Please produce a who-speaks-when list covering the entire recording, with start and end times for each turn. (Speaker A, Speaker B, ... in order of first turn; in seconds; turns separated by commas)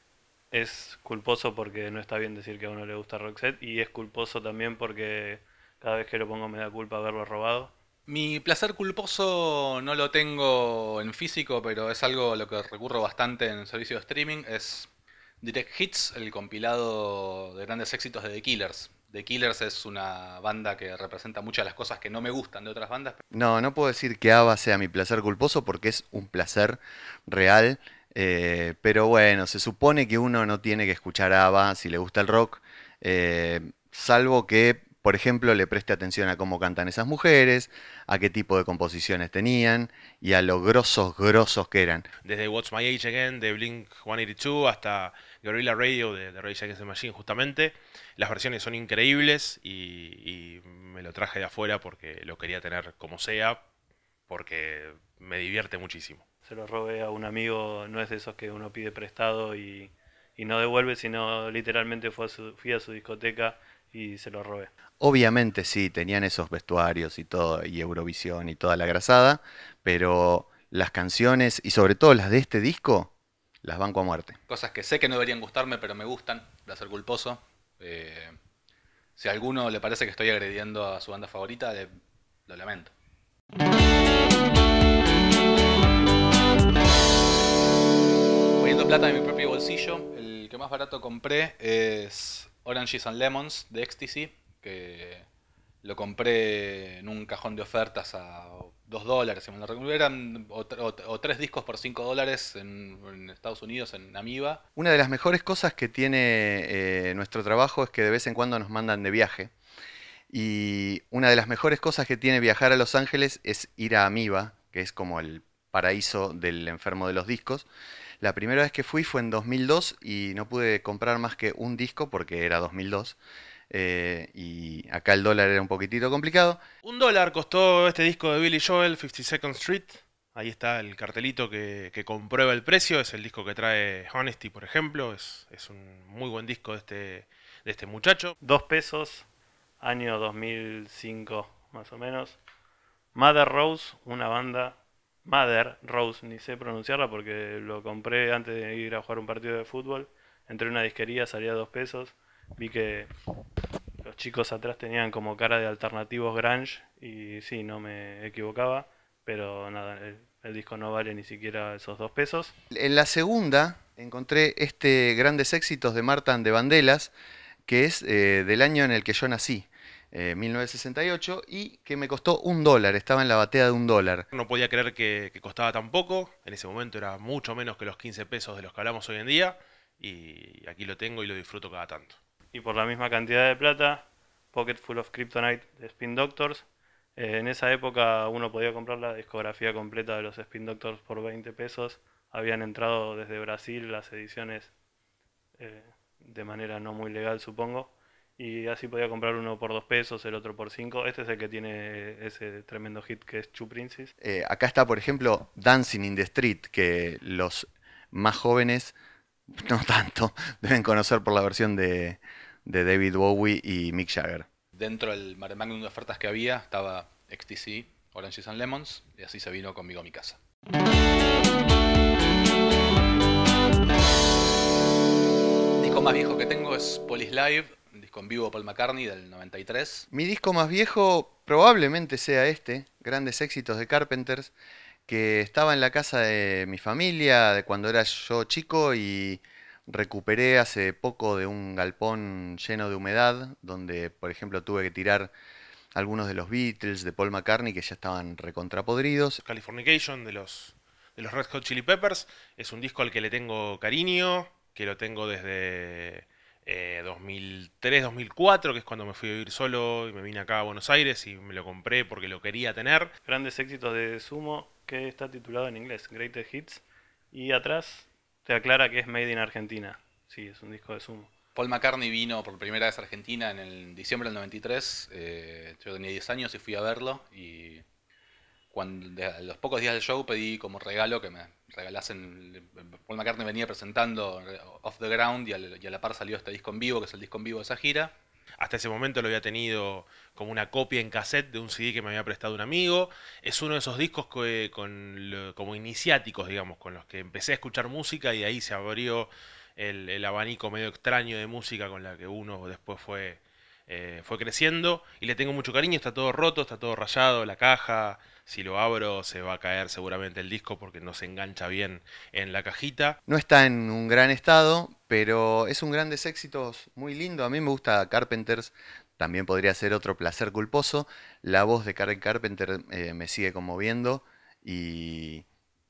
Speaker A: 0.5-7.7, Speaker B: 8.1-23.2, Speaker C: 23.3-42.1, Speaker D: 42.2-53.6, Speaker D: 54.3-56.2, Speaker A: 56.5-64.7, Speaker C: 65.0-73.1, Speaker C: 73.6-74.4, Speaker B: 74.5-78.4, Speaker B: 79.2-81.9, Speaker B: 82.5-82.9, Speaker B: 88.6-95.3, Speaker B: 95.8-104.6, Speaker C: 104.8-109.5, Speaker C: 110.3-117.7, Speaker C: 118.2-123.2, Speaker C: 123.7-126.6, Speaker D: 126.8-138.3, Speaker A: 138.4-139.3, Speaker A: 139.8-142.4, Speaker A: 143.1-153.1, Speaker A: 154.0-162.5, Speaker C: 162.7-167.1, Speaker C: 167.7-174.3, Speaker D: 174.3-182.2, Speaker A: 182.5-186.7, Speaker A: 187.2-194.7, Speaker A: 195.6-204.1, Speaker C: 204.2-208.9, Speaker C: 209.5-214.5, Speaker B: 214.8-220.4, Speaker B: 225.8-230.1, Speaker C: 230.1-234.5, Speaker C: 235.1-245.3, Speaker C: 245.9-249.4, Speaker D: 249.4-263.1, Speaker A: 263.2-271.3, Speaker B: 271.6-277.8, Speaker B: 278.7-288.1, Speaker D: 288.6-313.2, Speaker C: 313.3-325.4